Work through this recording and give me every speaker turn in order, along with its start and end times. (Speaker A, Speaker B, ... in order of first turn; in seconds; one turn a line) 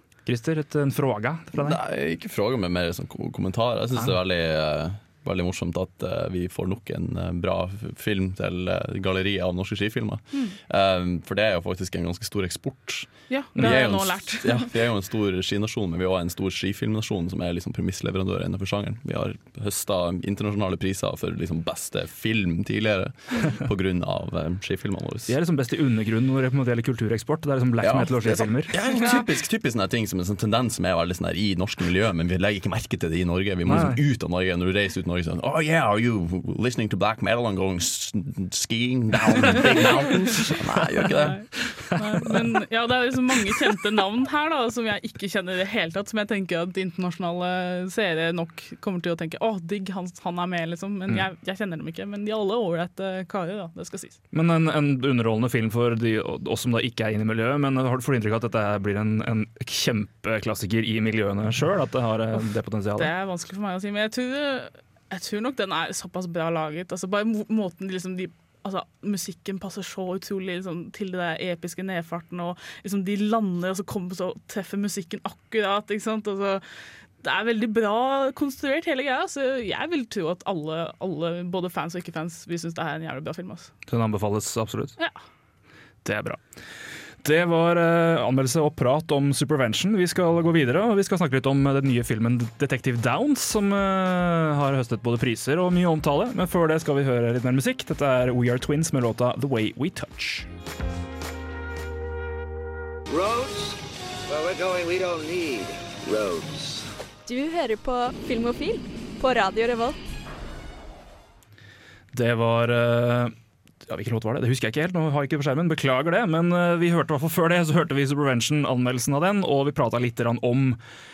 Speaker A: 0.2-1.8
Speaker B: 1.6-25.3
Speaker C: 13.3-14.7
Speaker A: 13.6-13.8
Speaker A: 25.3-28.8
Speaker B: 27.8-41.4
Speaker A: 33.6-34.0
Speaker C: 41.2-54.2
Speaker A: 41.7-42.3
Speaker A: 54.3-63.1
Speaker C: 63.0-76.6
Speaker C: 77.2-83.7
Speaker A: 83.9-85.0
Speaker A: 86.0-86.4
Speaker A: 87.2-100.5
Speaker D: 103.1-103.7
Speaker D: 104.3-106.7
Speaker E: 107.2-110.0
Speaker A: 112.1-113.3
Speaker A: 113.9-120.8